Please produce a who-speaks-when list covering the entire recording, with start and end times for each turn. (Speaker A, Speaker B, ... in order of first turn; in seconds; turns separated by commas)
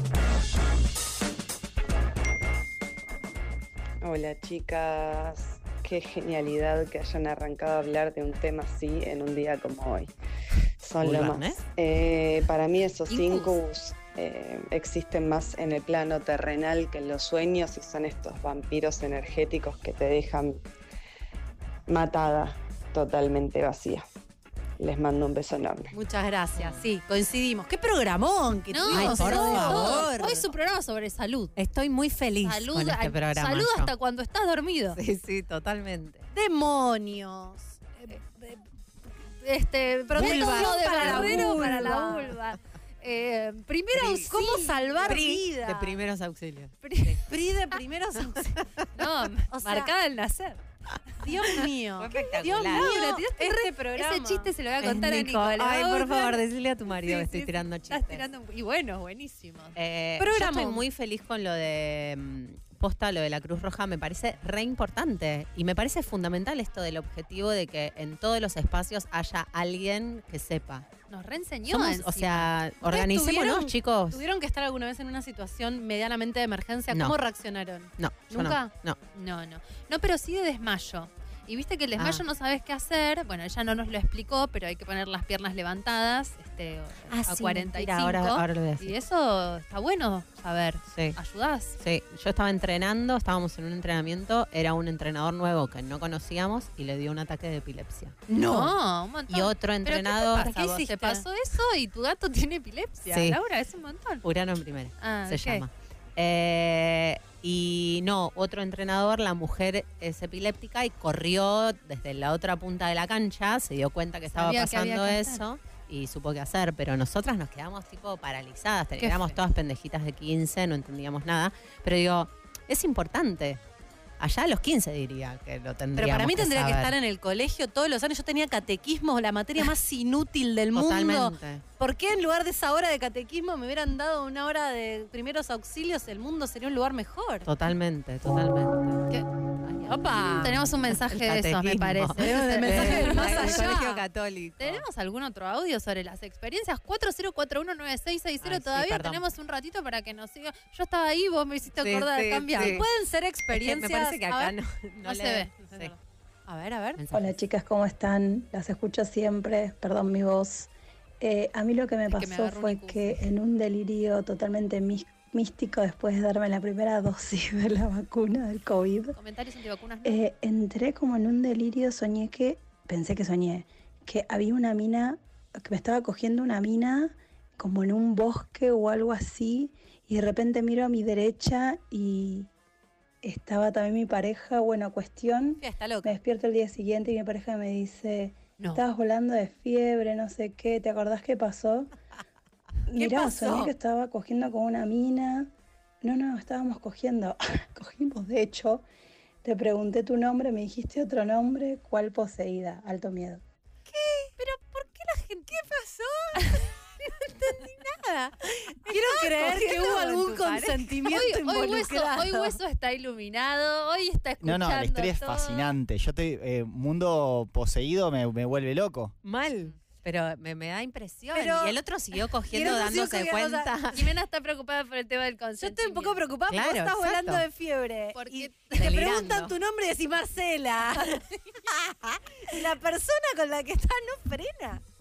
Speaker A: 4.0-10.1, Speaker A: 10.8-20.6, Speaker B: 11.0-11.6, Speaker C: 13.1-13.6, Speaker A: 21.9-24.0, Speaker A: 24.8-25.9, Speaker D: 25.9-30.1, Speaker B: 26.6-26.8, Speaker C: 28.7-31.5, Speaker B: 28.9-30.4, Speaker B: 31.5-33.9, Speaker C: 32.4-35.0, Speaker B: 34.9-36.2, Speaker D: 36.3-38.5, Speaker C: 39.4-45.2, Speaker D: 40.1-42.4, Speaker B: 40.1-41.9, Speaker B: 43.9-44.3, Speaker D: 44.0-46.0, Speaker B: 45.0-47.2, Speaker D: 47.2-48.6, Speaker C: 48.9-50.6, Speaker D: 49.5-49.9, Speaker D: 51.2-54.5, Speaker B: 52.0-53.0, Speaker C: 52.6-59.8, Speaker B: 54.8-58.2, Speaker B: 59.8-70.9, Speaker D: 60.2-60.8, Speaker C: 71.1-72.5, Speaker B: 71.7-74.2, Speaker D: 72.9-78.7, Speaker B: 76.9-77.2, Speaker B: 78.0-79.0, Speaker C: 79.1-91.8, Speaker B: 82.0-82.2, Speaker B: 87.1-88.9, Speaker B: 90.9-91.2, Speaker B: 91.8-98.3, Speaker D: 98.3-98.7, Speaker C: 98.4-104.2, Speaker B: 99.3-101.0, Speaker B: 103.1-103.4, Speaker B: 104.2-123.6, Speaker C: 105.0-105.6, Speaker C: 114.3-115.4, Speaker C: 119.0-119.3, Speaker B: 124.2-126.9, Speaker D: 126.0-137.5, Speaker B: 130.7-131.6, Speaker B: 137.4-139.1, Speaker B: 139.6-144.8, Speaker D: 139.9-140.4, Speaker C: 140.1-143.8, Speaker D: 142.2-144.0, Speaker C: 144.6-152.8, Speaker B: 148.4-149.2, Speaker B: 151.7-152.9, Speaker D: 152.5-154.5, Speaker B: 153.5-155.9, Speaker C: 155.0-156.0, Speaker D: 156.5-157.0, Speaker B: 157.0-157.4, Speaker E: 157.1-160.7, Speaker E: 161.2-169.2, Speaker C: 162.1-163.2, Speaker C: 169.2-170.3, Speaker E: 170.0-182.5, Speaker E: 183.2-191.9, Speaker D: 185.6-186.2, Speaker E: 192.9-195.5, Speaker D: 192.9-193.7, Speaker E: 196.0-198.8, Speaker E: 199.4-203.4, Speaker D: 203.9-212.6, Speaker C: 208.9-215.7, Speaker F: 214.4-219.2, Speaker B: 219.2-224.1, Speaker D: 221.3-221.7, Speaker D: 222.5-223.7, Speaker C: 223.9-226.2, Speaker D: 225.6-231.2, Speaker B: 226.5-227.4, Speaker C: 228.1-229.1, Speaker B: 228.7-229.5, Speaker B: 231.7-232.2, Speaker D: 232.4-234.8